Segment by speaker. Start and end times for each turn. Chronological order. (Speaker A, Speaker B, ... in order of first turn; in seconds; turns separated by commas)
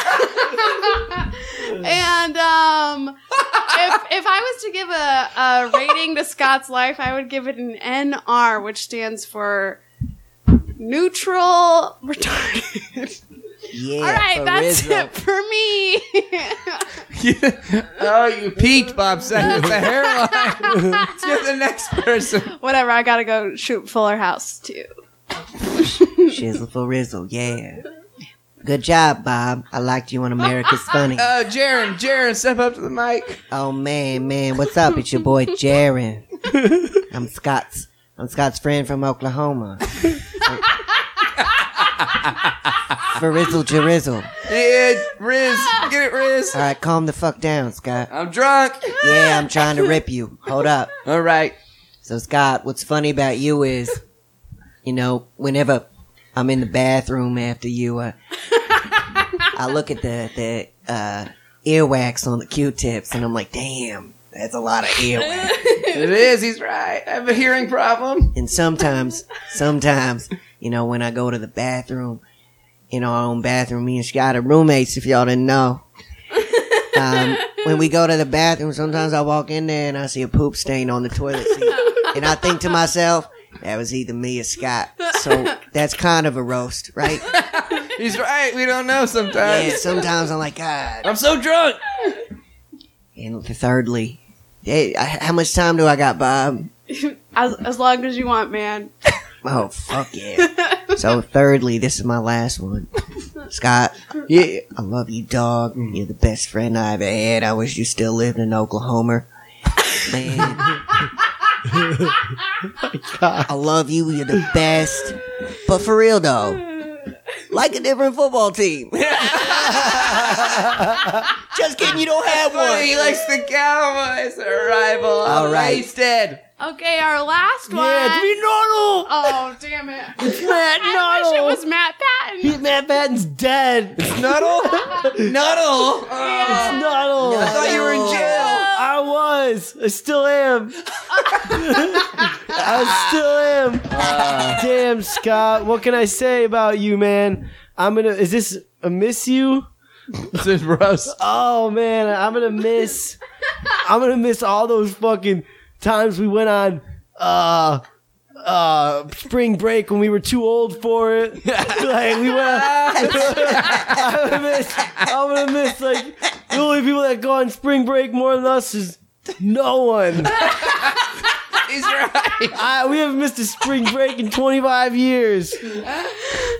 Speaker A: 0.3-9.8, Speaker A: 10.8-13.2, Speaker B: 13.7-15.1, Speaker A: 14.0-17.0, Speaker C: 17.1-22.5, Speaker A: 19.4-21.4, Speaker A: 22.5-24.9, Speaker A: 25.7-26.3, Speaker B: 26.1-27.8, Speaker B: 28.6-31.3, Speaker C: 31.1-33.4, Speaker B: 33.5-36.3, Speaker B: 37.1-40.6, Speaker C: 41.4-42.5, Speaker B: 43.1-44.3, Speaker C: 44.4-46.6, Speaker A: 45.5-45.9, Speaker B: 46.5-48.1, Speaker C: 48.1-49.3, Speaker B: 49.0-50.9, Speaker C: 51.0-51.5, Speaker B: 52.0-54.0, Speaker B: 54.8-58.1, Speaker A: 59.1-59.4, Speaker B: 59.5-65.6, Speaker A: 65.3-66.1, Speaker C: 65.8-68.4, Speaker B: 68.3-72.2, Speaker B: 72.9-75.8, Speaker A: 76.5-77.2, Speaker B: 76.9-87.3, Speaker A: 81.8-82.1, Speaker C: 87.3-89.9, Speaker B: 89.4-91.1, Speaker C: 91.0-92.2, Speaker B: 93.2-96.7, Speaker A: 96.9-98.9, Speaker B: 99.4-109.3, Speaker A: 100.4-100.8, Speaker B: 109.9-110.8, Speaker D: 111.7-112.1, Speaker D: 112.8-113.5, Speaker B: 113.5-116.6, Speaker B: 117.5-123.2, Speaker C: 119.2-121.0, Speaker C: 122.4-126.4, Speaker B: 125.2-125.8, Speaker A: 126.6-128.3, Speaker D: 127.7-129.4, Speaker A: 129.1-132.7, Speaker D: 130.2-131.6, Speaker D: 132.4-135.3, Speaker C: 134.0-138.7, Speaker A: 136.1-138.9, Speaker D: 136.4-149.7, Speaker B: 137.2-138.5, Speaker B: 142.6-143.2, Speaker C: 143.9-144.7, Speaker C: 150.2-151.2, Speaker D: 151.1-153.2, Speaker D: 153.7-157.8, Speaker D: 158.4-170.5, Speaker C: 161.5-164.1, Speaker B: 162.9-164.0, Speaker C: 170.4-172.6, Speaker D: 172.5-175.8